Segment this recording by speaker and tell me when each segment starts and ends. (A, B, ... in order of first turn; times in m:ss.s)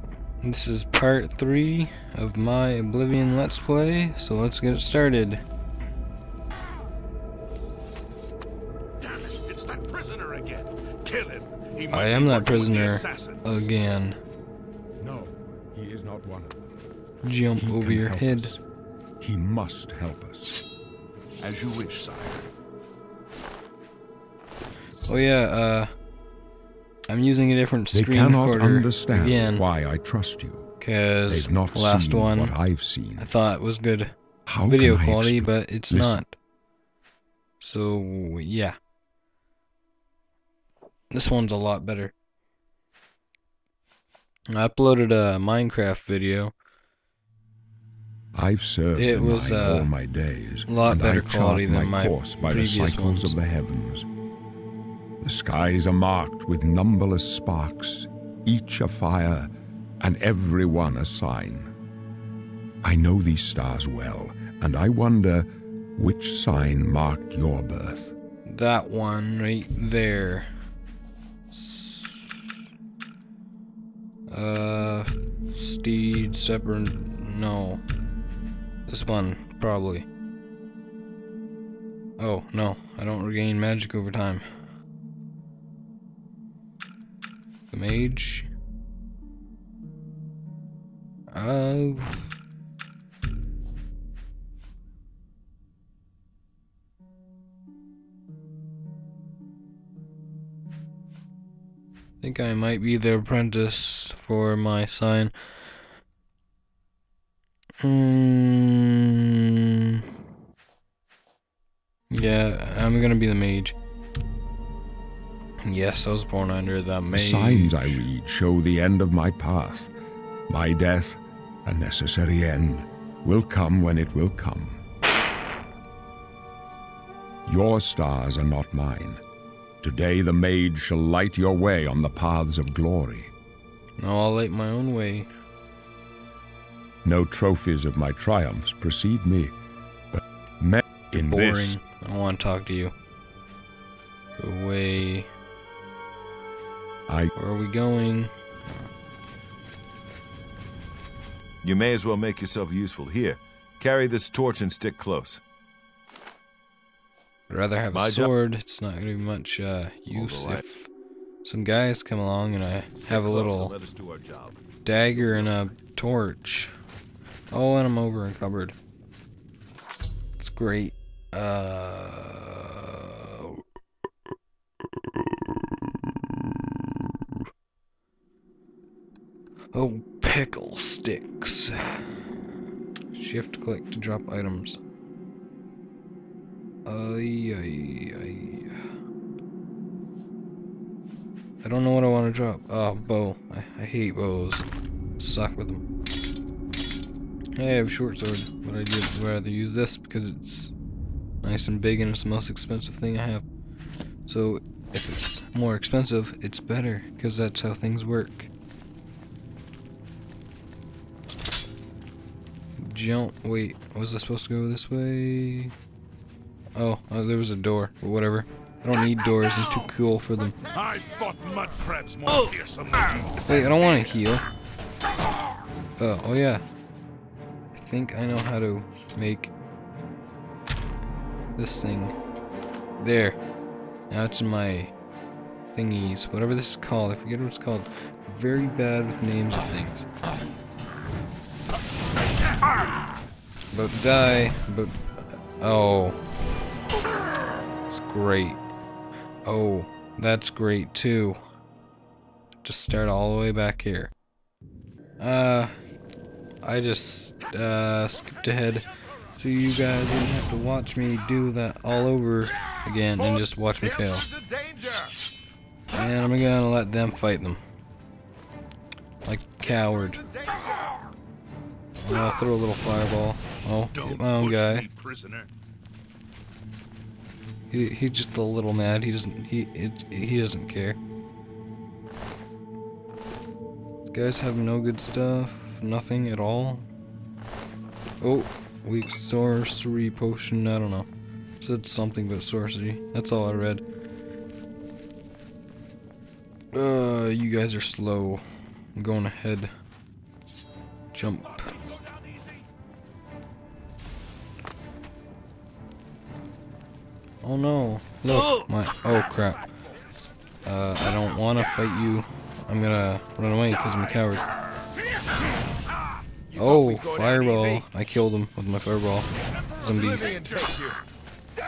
0:00.4-0:05.4 A
0:09.0-0:13.7 B
0:11.9-0:14.2 A
0:15.0-0:16.8 C
0:17.2-0:18.5 A
0:17.6-0:18.6 C
0:19.2-0:20.6 C
0:21.4-0:22.5 B
0:25.0-0:25.9 A
0:27.1-0:29.6 A
0:27.9-0:30.7 C
0:30.8-0:32.6 A
0:31.3-0:33.3 C
0:33.2-0:34.1 A
0:34.5-0:36.2 C
0:34.7-0:36.4 A
0:37.6-0:38.8 A
0:41.1-0:42.1 A
0:44.5-0:46.5 A
0:48.3-0:54.0 C
0:49.0-0:49.9 A
0:50.7-0:53.4 A
0:55.2-1:01.7 C
1:02.8-1:08.1 C
1:08.4-1:10.5 A
1:11.5-1:12.5 A
1:14.3-1:17.8 A
1:18.9-1:20.1 A
1:22.2-1:24.4 A
1:27.7-1:28.5 A
1:31.3-1:32.3 A
1:42.2-1:45.3 A
1:47.8-1:49.1 A
1:52.1-1:53.7 A
1:55.6-1:58.0 A
1:57.1-1:59.9 C
2:00.5-2:04.8 C
2:07.4-2:09.2 C
2:09.8-2:13.3 C
2:14.0-2:15.3 A
2:17.0-2:19.5 C
2:20.1-2:21.8 C
2:21.1-2:22.9 A
2:24.4-2:25.3 A
2:27.4-2:28.9 A
2:31.6-2:35.4 D
2:37.5-2:40.9 A
2:37.9-2:38.3 D
2:40.1-2:40.6 D
2:41.4-2:43.7 A
2:42.9-2:45.7 D
2:44.8-2:46.7 A
2:47.5-2:48.7 A
2:50.4-2:53.6 A
2:55.0-2:55.3 A
2:59.7-3:02.2 A
3:03.1-3:04.8 A
3:06.8-3:08.8 A
3:11.6-3:14.7 A
3:15.2-3:15.8 A
3:17.6-3:20.7 A
3:21.4-3:23.4 A
3:24.2-3:28.5 A
3:32.8-3:35.7 A
3:36.7-3:40.6 A
3:40.7-3:44.2 B
3:43.5-3:44.4 A
3:46.0-3:46.6 A
3:47.7-3:49.5 A
3:51.6-3:52.2 A
3:53.0-3:53.4 A
3:54.1-3:54.9 A
3:55.7-4:00.1 A
4:03.7-4:06.2 A
4:07.9-4:08.6 A
4:09.4-4:11.4 A
4:12.6-4:14.1 A
4:15.2-4:15.7 A
4:16.6-4:24.3 A
4:23.2-4:25.1 D
4:25.9-4:27.6 A
4:29.2-4:30.3 A
4:29.8-4:30.9 D
4:32.0-4:34.9 A
4:33.9-4:35.5 B
4:37.7-4:41.0 A
4:44.1-4:46.8 A
4:48.2-4:51.1 A
4:51.6-4:53.8 A
4:56.7-4:58.4 A
4:58.9-4:59.7 A
5:01.1-5:01.7 A
5:01.5-5:02.6 B
5:07.4-5:09.7 A
5:10.6-5:14.4 A
5:16.5-5:17.9 D
5:16.6-5:19.3 A
5:19.4-5:20.6 B
5:19.8-5:20.3 A
5:19.9-5:21.0 D